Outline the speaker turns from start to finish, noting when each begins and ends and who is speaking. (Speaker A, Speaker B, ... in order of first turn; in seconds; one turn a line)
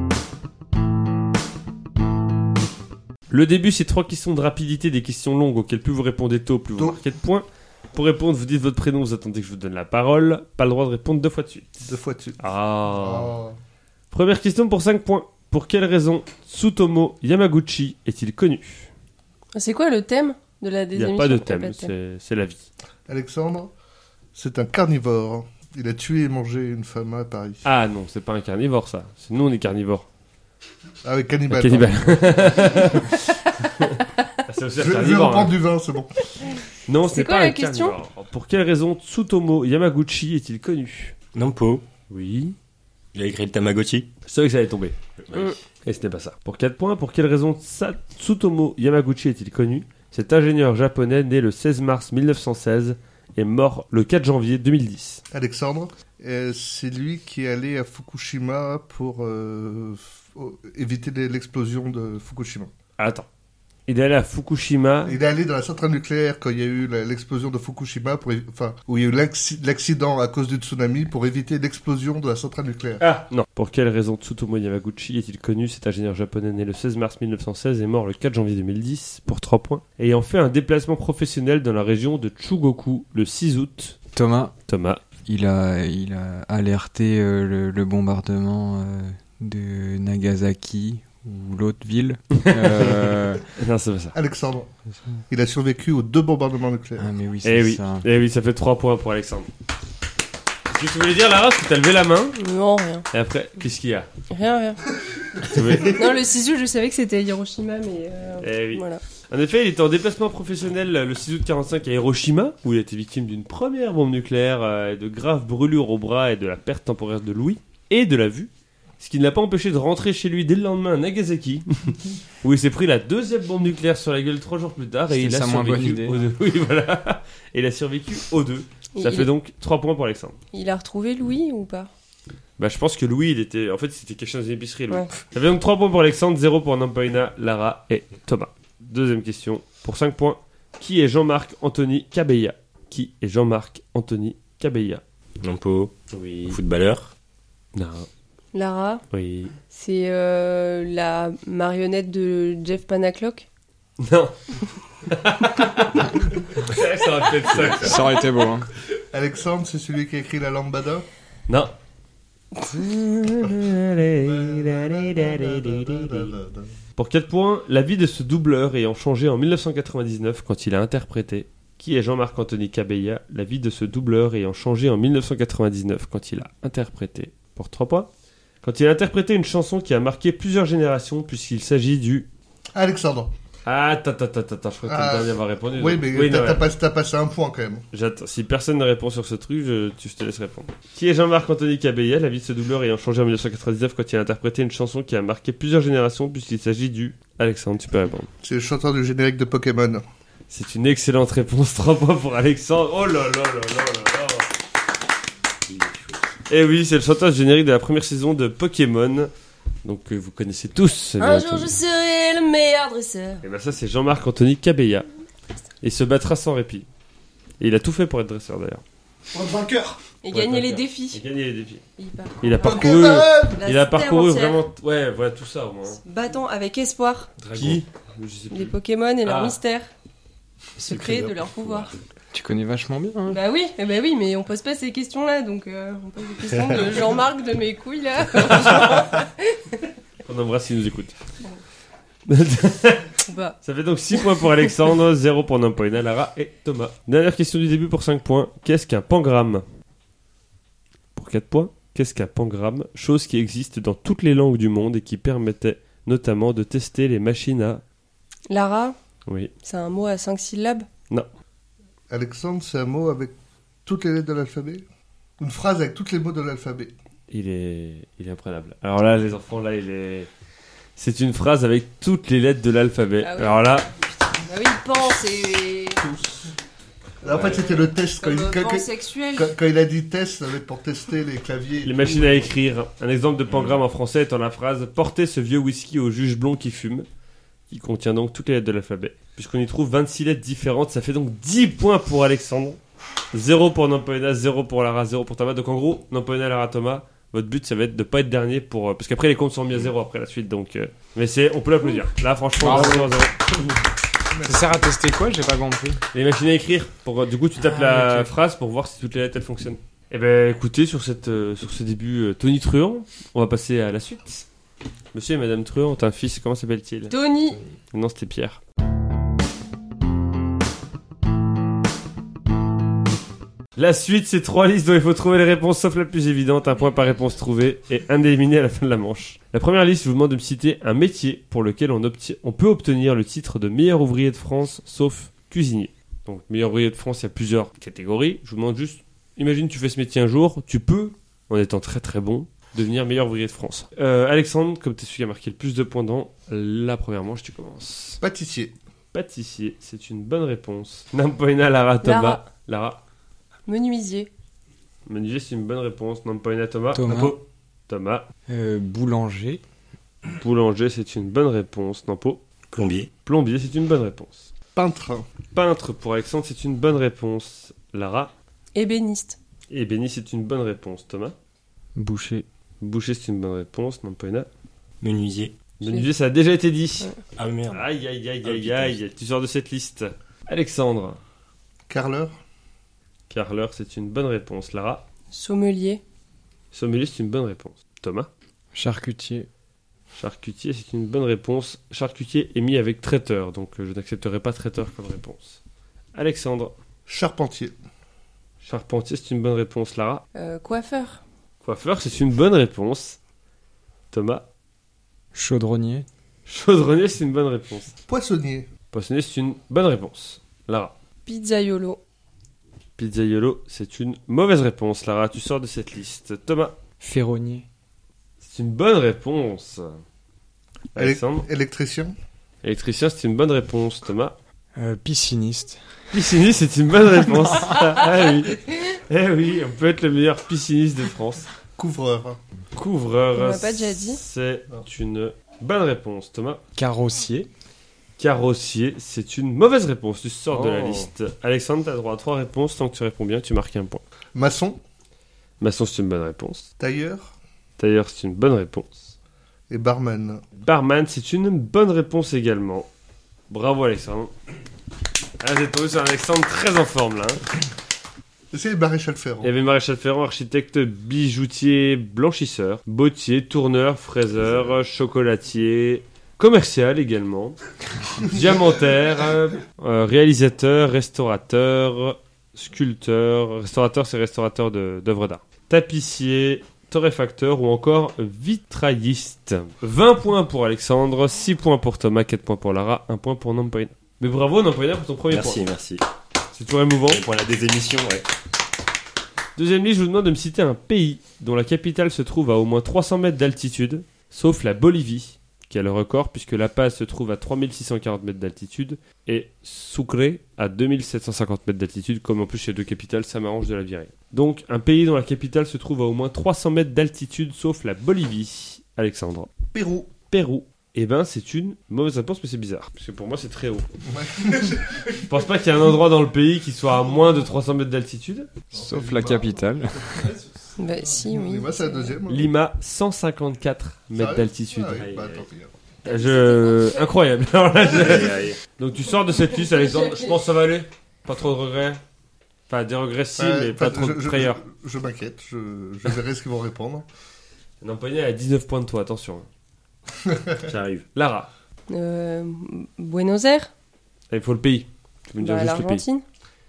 Speaker A: 3.3-11.9
Speaker B: 11.8-13.6
Speaker A: 12.4-13.3
Speaker A: 14.1-18.9
Speaker C: 19.5-21.9
Speaker A: 20.9-22.7
Speaker B: 23.1-23.7
Speaker B: 24.3-27.6
Speaker A: 27.6-30.1
Speaker B: 31.0-33.0
Speaker A: 31.5-35.5
Speaker B: 34.8-36.1
Speaker A: 36.9-41.1
Speaker C: 37.1-38.0
Speaker D: 41.3-41.8
Speaker A: 42.1-42.5
Speaker D: 43.1-44.1
Speaker A: 44.2-45.0
Speaker D: 45.2-45.5
Speaker A: 45.8-55.2
Speaker B: 55.3-62.7
Speaker A: 63.0-63.3
Speaker A: 63.9-65.2
Speaker B: 65.0-73.0
Speaker A: 73.0-84.0
Speaker E: 84.1-84.5
Speaker A: 84.7-85.0
Speaker E: 85.2-93.4
Speaker A: 92.4-94.1
Speaker B: 94.1-94.7
Speaker B: 95.3-97.1
Speaker E: 97.0-98.0
Speaker A: 97.4-99.5
Speaker A: 100.7-102.4
Speaker C: 102.4-103.1
Speaker A: 103.1-104.1
Speaker C: 104.3-104.8
Speaker A: 105.4-106.2
Speaker C: 105.8-109.0
Speaker A: 108.4-130.4
Speaker E: 125.1-126.3
Speaker C: 128.9-129.3
Speaker C: 130.5-131.9
Speaker A: 132.6-145.0
Speaker D: 145.4-145.9
Speaker A: 146.1-146.6
Speaker D: 146.5-147.1
Speaker A: 147.7-148.1
Speaker C: 148.5-149.0
Speaker A: 149.1-149.5
Speaker C: 149.7-153.4
Speaker A: 154.0-154.4
Speaker A: 155.0-158.1
Speaker E: 157.7-158.7
Speaker B: 159.1-161.1
Speaker A: 162.6-166.3
Speaker B: 164.2-166.7
Speaker A: 167.0-178.1
Speaker A: 178.6-182.3
Speaker B: 182.7-183.3
Speaker A: 183.6-186.7
Speaker B: 184.9-187.8
Speaker A: 187.9-198.3
Speaker B: 198.4-200.0
Speaker A: 200.5-204.5
Speaker D: 205.7-206.2
Speaker A: 206.5-209.3
Speaker A: 209.8-211.8
Speaker C: 211.2-213.4
Speaker A: 213.4-215.1
Speaker A: 215.8-216.9
Speaker A: 217.6-218.8
Speaker B: 219.3-220.0
Speaker C: 220.2-221.2
Speaker A: 220.3-221.8
Speaker C: 222.0-224.6
Speaker A: 222.4-226.0
Speaker B: 222.6-223.6
Speaker C: 226.0-227.3
Speaker A: 227.4-229.6
Speaker D: 227.5-227.8
Speaker C: 228.5-229.9
Speaker D: 230.8-231.9
Speaker C: 230.8-231.9
Speaker E: 232.3-233.4
Speaker C: 233.3-239.8
Speaker A: 238.3-239.2
Speaker A: 240.2-241.2
Speaker A: 242.3-249.6
Speaker C: 243.2-243.6
Speaker A: 251.1-257.8
Speaker C: 258.5-258.9
Speaker A: 259.3-259.5
Speaker C: 259.6-260.9
Speaker B: 262.1-263.3
Speaker B: 263.9-264.8
Speaker B: 265.4-266.9
Speaker A: 267.3-270.3
Speaker A: 270.9-273.9
Speaker C: 273.2-276.0
Speaker B: 276.0-276.5
Speaker B: 277.2-282.4
Speaker A: 277.3-277.6
Speaker C: 277.5-279.6
Speaker A: 281.8-287.1
Speaker A: 287.7-292.8
Speaker A: 293.3-303.5
Speaker E: 302.6-303.1
Speaker B: 302.7-303.0
Speaker B: 304.3-304.7
Speaker E: 304.4-306.0
Speaker A: 306.1-314.4
Speaker E: 307.6-308.3
Speaker A: 315.1-317.1
Speaker C: 317.1-317.6
Speaker A: 317.9-318.6
Speaker A: 323.8-348.2
Speaker B: 348.2-348.7
Speaker A: 349.1-353.0
Speaker C: 352.0-352.4
Speaker C: 353.6-354.3
Speaker A: 355.1-358.2
Speaker E: 356.9-357.4
Speaker E: 358.5-359.6
Speaker A: 360.4-362.4
Speaker D: 362.7-363.1
Speaker A: 363.2-364.5
Speaker B: 364.7-365.2
Speaker A: 365.5-368.3
Speaker C: 368.7-369.4
Speaker A: 369.7-371.3
Speaker E: 371.9-372.4
Speaker A: 372.8-374.5
Speaker D: 375.0-375.6
Speaker A: 375.8-377.1
Speaker D: 377.4-377.9
Speaker A: 377.7-381.2
Speaker D: 378.4-379.0
Speaker B: 381.9-382.3
Speaker A: 383.3-385.0
Speaker C: 385.3-386.0
Speaker A: 386.7-388.3
Speaker E: 388.7-389.5
Speaker A: 390.1-395.6
Speaker A: 396.1-396.8
Speaker B: 397.1-397.7
Speaker A: 398.6-400.2
Speaker C: 400.4-401.2
Speaker A: 401.6-403.2
Speaker A: 404.1-404.4
Speaker E: 405.3-406.1
Speaker A: 406.4-407.9
Speaker B: 408.1-408.7
Speaker A: 408.9-410.9
Speaker C: 411.2-412.0
Speaker A: 413.0-416.8
Speaker E: 417.0-417.6
Speaker A: 418.4-420.0
Speaker A: 420.9-421.4
Speaker B: 420.9-422.1
Speaker A: 422.6-424.4
Speaker E: 424.7-425.9
Speaker A: 426.1-431.5
Speaker E: 427.4-427.8
Speaker B: 431.8-432.4
Speaker A: 432.7-436.6
Speaker C: 433.3-434.2
Speaker E: 436.7-437.5
Speaker A: 438.2-444.0
Speaker E: 440.5-441.1
Speaker B: 444.3-444.8
Speaker A: 445.6-446.7
Speaker B: 446.8-447.3
Speaker A: 447.8-449.1
Speaker B: 449.7-450.4
Speaker A: 450.6-452.9
Speaker A: 453.5-454.3
Speaker A: 455.4-457.4
Speaker B: 458.5-459.5
Speaker A: 459.4-467.6
Speaker A: 468.1-485.6
Speaker D: 485.3-486.0
Speaker A: 486.5-487.2
Speaker D: 487.1-488.3
Speaker A: 489.6-509.5
Speaker B: 509.7-510.1
Speaker A: 510.3-513.9
Speaker B: 514.1-515.2
Speaker A: 515.1-518.5
Speaker B: 518.7-520.4
Speaker E: 518.7-520.3
Speaker C: 520.8-522.1
Speaker B: 521.2-522.5
Speaker A: 522.3-525.0
Speaker B: 524.1-525.7
Speaker D: 525.0-525.5
Speaker A: 526.0-532.0
Speaker C: 526.0-527.0
Speaker D: 527.9-528.6
Speaker C: 529.8-530.2
Speaker A: 532.7-534.6
Speaker B: 533.4-537.0
Speaker A: 537.8-539.5
Speaker D: 540.6-541.0
Speaker A: 541.1-541.5
Speaker C: 541.9-543.7
Speaker A: 544.3-546.0
Speaker C: 545.4-546.2